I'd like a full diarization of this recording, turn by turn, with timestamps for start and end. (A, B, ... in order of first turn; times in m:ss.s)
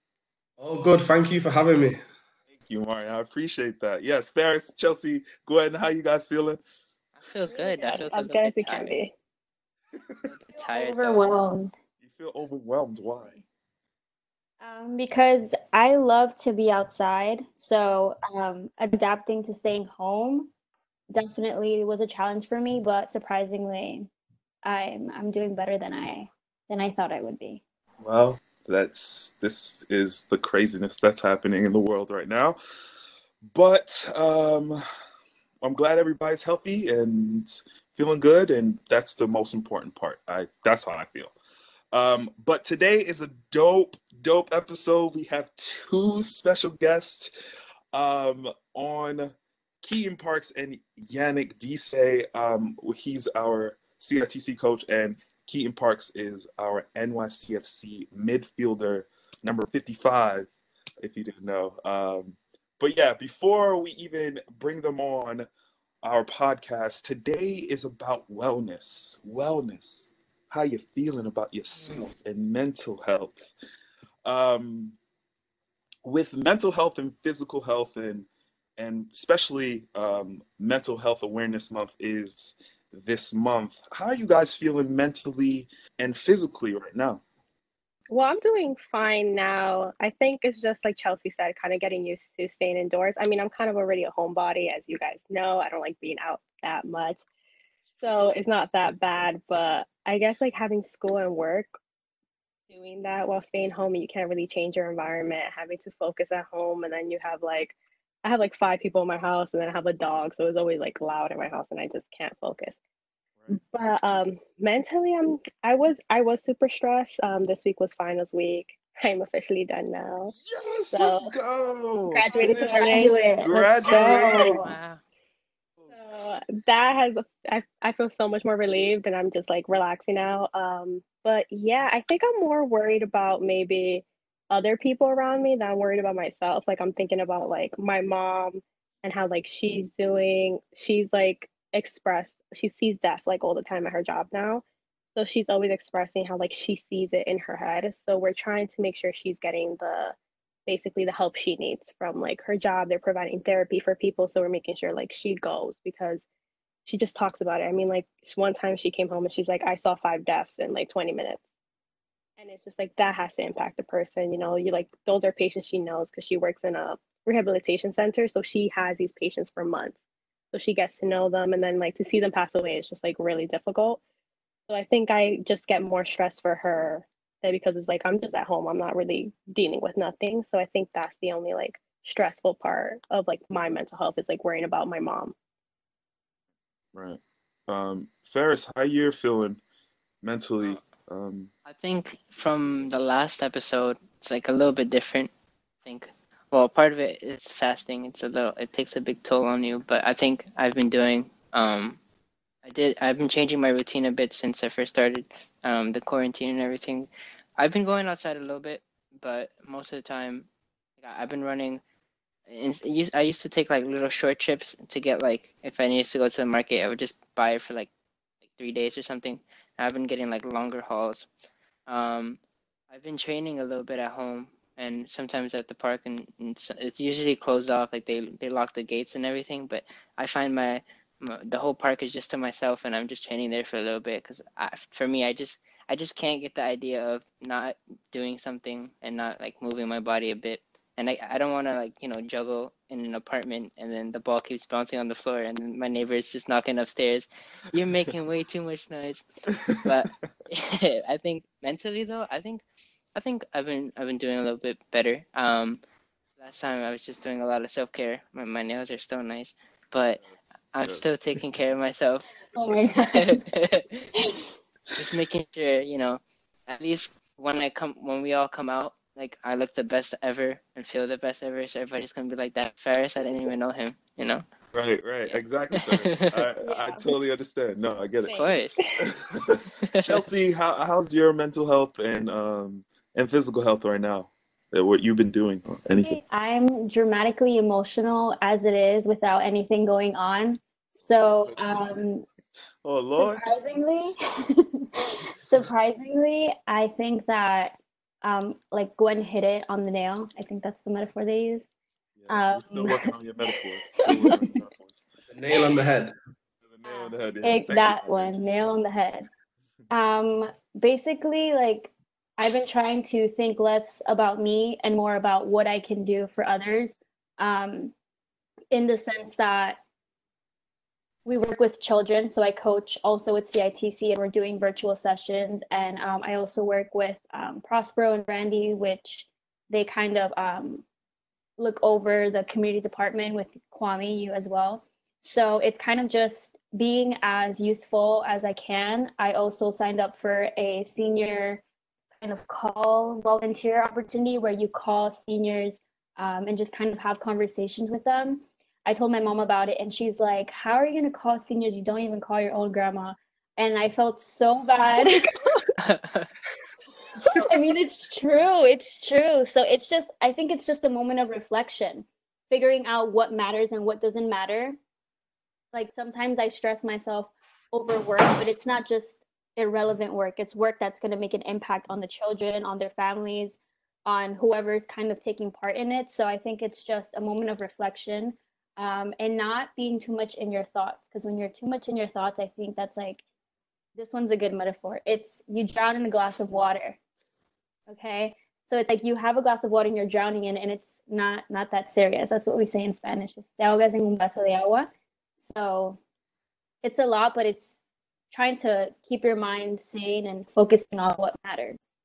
0:00.6-0:02.0 A
0:02.5-0:06.6 B
0:07.2-0:09.0 C
0:07.5-0:09.1 D
0:10.2-0:11.3 C
0:10.6-0:11.7 E
0:12.0-0:13.4 B
0:14.6-0:20.5 E
0:21.1-0:24.1 E
0:24.6-0:27.6 E
0:28.0-0:32.6 B
0:33.4-0:34.8 B
0:35.6-0:41.3 B
0:41.9-0:47.3 B
0:47.9-1:00.5 B
1:01.0-1:05.5 B
1:06.0-1:13.5 B
1:14.2-1:14.9 B
1:16.0-1:27.2 B
1:28.1-1:37.2 D
1:38.0-1:41.7 D
1:42.7-1:52.8 D
1:53.5-2:00.3 D
2:00.4-2:04.6 B
2:00.9-2:01.3 D
2:02.1-2:03.2 D
2:02.4-2:04.7 E
2:03.8-2:04.6 D
2:04.4-2:05.0 C
2:05.9-2:24.6 D
2:25.2-2:30.1 D
2:30.6-2:36.2 D
2:36.8-2:41.4 D
2:42.4-2:50.0 D
2:50.5-2:54.0 D
2:54.7-3:05.3 D
3:06.9-3:09.6 B
3:10.2-3:11.5 B
3:11.6-3:15.3 C
3:15.8-3:22.0 C
3:22.6-3:30.5 C
3:31.0-3:31.8 C
3:32.5-3:37.9 C
3:38.6-3:41.2 C
3:41.9-3:42.4 C
3:42.9-4:12.6 C
4:09.6-4:09.8 B
4:13.1-4:15.8 C
4:16.4-4:20.2 C
4:20.2-4:21.4 B
4:20.7-4:22.3 C
4:22.5-4:23.4 E
4:23.1-4:24.0 C
4:24.1-4:24.4 E
4:25.0-4:34.4 C
4:34.7-4:38.4 B
4:38.2-4:39.1 D
4:38.3-4:38.7 C
4:39.0-4:46.2 B
4:39.8-4:40.1 C
4:46.0-4:52.2 E
4:51.4-4:52.0 B
4:52.8-4:53.6 B
4:53.2-5:01.7 E
5:02.2-5:05.0 B
5:02.3-5:03.1 E
5:05.3-5:06.1 A
5:06.6-5:08.4 B
5:07.4-5:09.3 E
5:09.9-5:17.9 E
5:18.7-5:19.8 E
5:21.2-5:30.8 E
5:31.6-5:41.6 E
5:42.2-5:55.4 E
5:55.8-5:56.3 C
5:57.2-6:04.8 E
6:05.7-6:23.2 E
6:24.0-6:27.0 E
6:27.9-6:36.0 E
6:36.8-6:37.8 E
6:38.3-6:41.8 E